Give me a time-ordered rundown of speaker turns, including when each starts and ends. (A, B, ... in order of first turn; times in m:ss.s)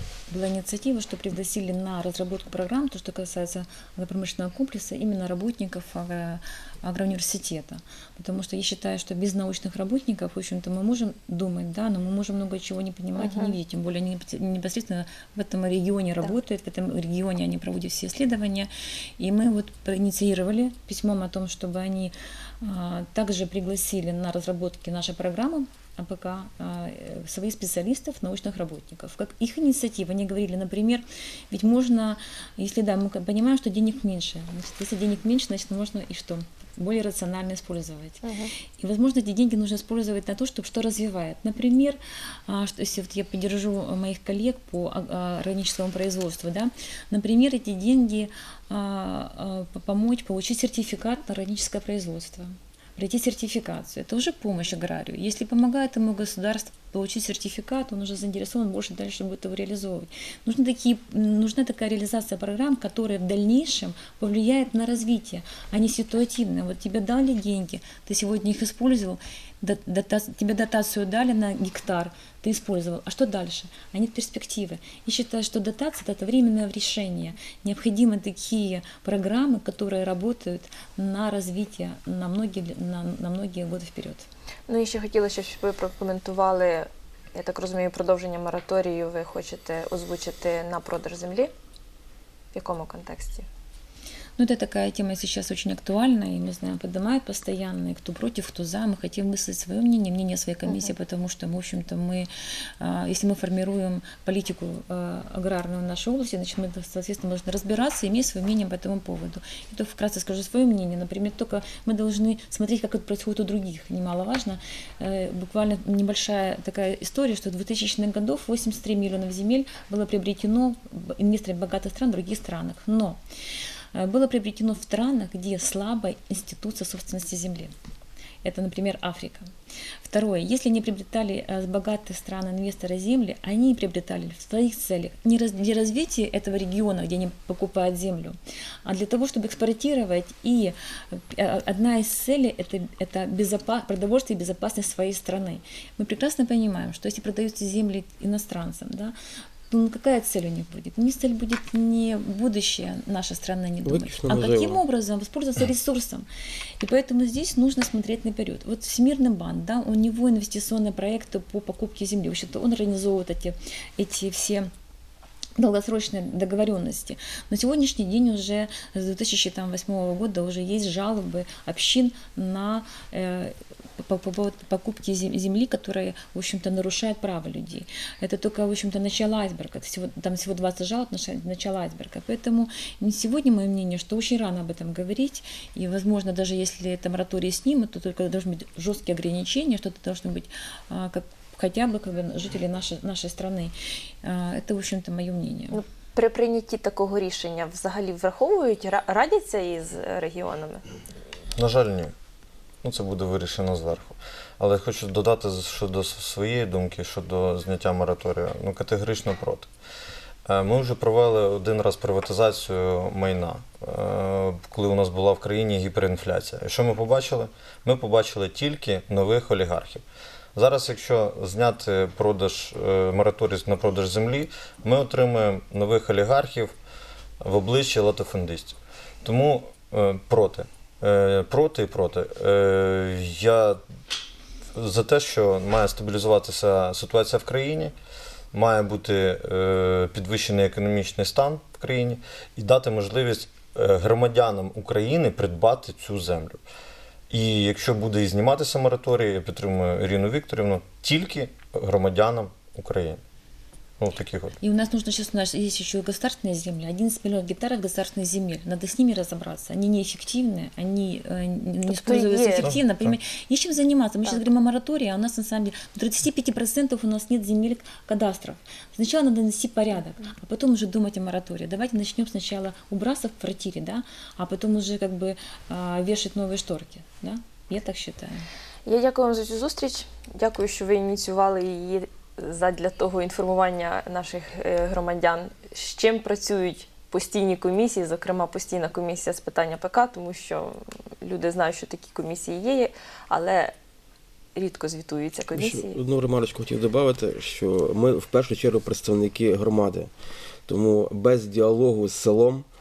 0:00.3-0:38.2 A
0:13.2-0:13.5 B
0:38.2-0:38.5 B
0:38.8-1:24.3 A
1:24.7-1:31.5 B
1:32.5-1:33.4 B
1:34.4-1:42.3 A
1:40.6-1:40.9 B
1:42.8-2:03.2 A
2:03.9-2:07.7 A
2:08.4-2:09.5 A
2:10.0-2:29.1 A
2:29.7-2:36.2 A
2:33.8-2:34.8 C
2:36.8-2:44.7 A
2:45.6-3:15.8 A
3:15.7-3:20.8 B
3:21.5-3:22.1 D
3:22.8-3:29.7 D
3:30.4-3:40.0 D
3:40.5-3:46.7 D
3:47.4-3:53.8 D
3:54.7-3:57.9 D
3:58.5-4:06.6 D
4:07.3-4:13.2 D
4:14.0-4:14.6 D
4:14.6-4:38.4 A
4:21.9-4:22.7 B
4:22.6-4:23.2 D
4:38.8-4:53.7 B
4:54.5-4:56.0 B
4:55.5-5:00.1 C
5:00.7-5:02.6 C